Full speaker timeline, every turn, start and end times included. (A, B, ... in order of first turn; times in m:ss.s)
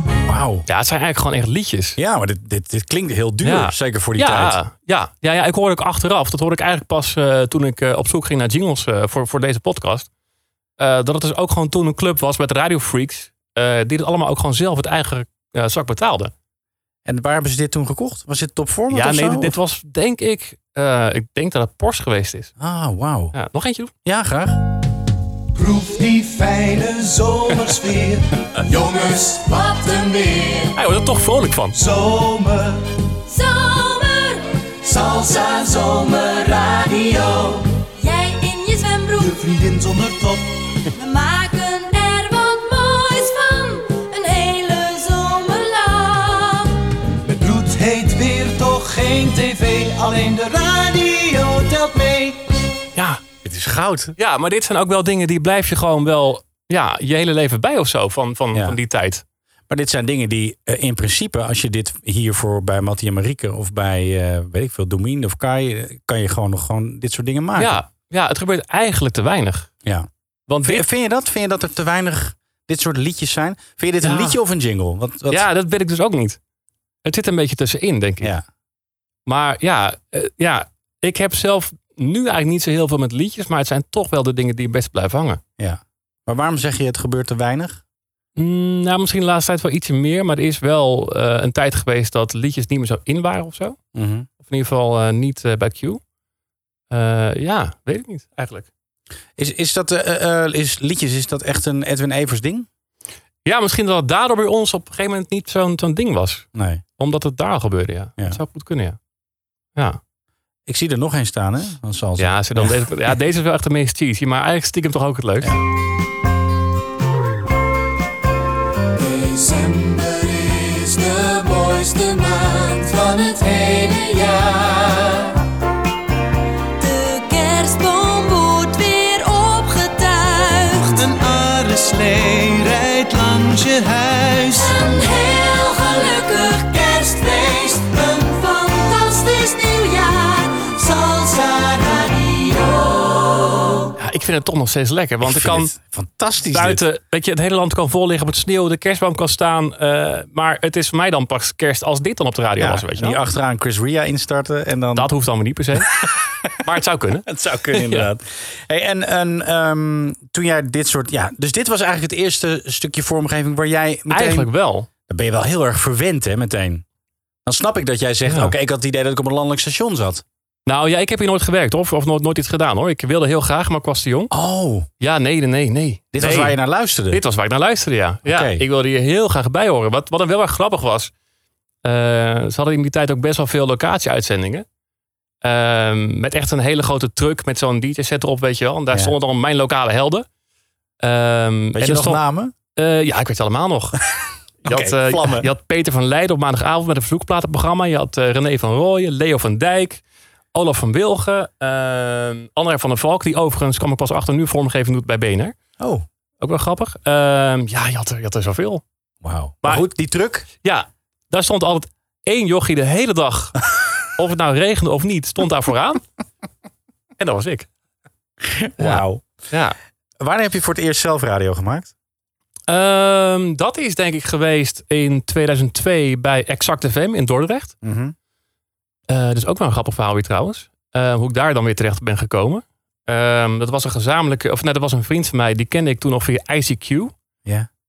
0:00.2-0:00.6 A
0:00.7-0:02.0 B
0:02.0-0:04.6 A
0:03.4-0:10.1 B
0:10.8-0:16.3 B
0:17.0-0:19.6 A
0:18.9-0:22.5 B
0:22.6-0:23.3 A
0:23.3-0:23.9 B
0:24.0-0:24.6 A
0:25.5-0:30.7 C
0:30.7-0:31.8 B
0:31.7-0:32.8 C
0:33.3-0:34.6 D
0:34.8-0:37.7 C
0:38.0-0:39.3 D
0:39.2-0:40.6 C
0:40.9-0:46.7 D
0:47.2-0:52.4 C
0:52.9-0:53.2 B
0:53.4-0:54.1 A
0:54.2-0:59.2 B
0:58.5-0:58.8 A
0:59.7-1:07.8 A
1:07.6-1:09.7 B
1:10.5-1:10.8 B
1:10.6-1:15.5 A
1:14.0-1:14.4 B
1:15.3-1:16.4 B
1:17.0-1:18.3 B
1:19.2-1:25.4 B
1:25.6-1:27.8 A
1:28.4-1:33.8 B
1:33.9-1:34.3 A
1:34.4-1:36.0 B
1:36.9-1:38.7 B
1:39.4-1:42.7 A
1:43.4-1:46.5 B
1:46.5-1:46.8 A
1:47.0-1:49.0 B
1:50.7-1:52.9 A
1:52.2-1:55.5 B
1:59.0-2:05.0 C
2:06.8-2:11.0 D
2:10.8-2:14.7 C
2:14.6-2:21.2 D
2:21.2-2:21.9 C
2:21.8-2:23.3 D
2:24.0-2:25.7 B
2:25.2-2:26.8 A
2:26.4-2:33.2 B
2:32.6-2:35.1 A
2:34.9-2:35.9 B
2:36.6-2:38.1 B
2:37.2-2:44.5 A
2:44.1-2:44.9 B
2:45.1-2:46.8 A
2:47.4-2:50.2 A
2:48.2-2:48.5 B
2:50.6-2:54.3 B
2:54.3-2:54.9 A
2:55.0-2:56.6 B
2:56.1-2:57.2 A
2:57.1-3:01.1 B
2:58.2-2:58.6 A
3:01.8-3:04.6 B
3:05.4-3:10.2 B
3:11.0-3:12.2 B
3:11.7-3:12.5 A
3:12.7-3:14.0 B
3:14.6-3:15.5 A
3:14.6-3:20.0 B
3:20.5-3:25.6 B
3:25.8-3:26.0 A
3:26.4-3:28.8 B
3:29.2-3:30.5 A
3:30.6-3:33.6 B
3:34.2-3:36.0 B
3:37.2-3:37.7 B
3:38.4-3:39.3 A
3:38.8-3:39.8 B
3:40.2-3:41.9 A
3:42.7-3:47.7 B
3:47.8-3:48.1 A
3:49.1-3:57.1 B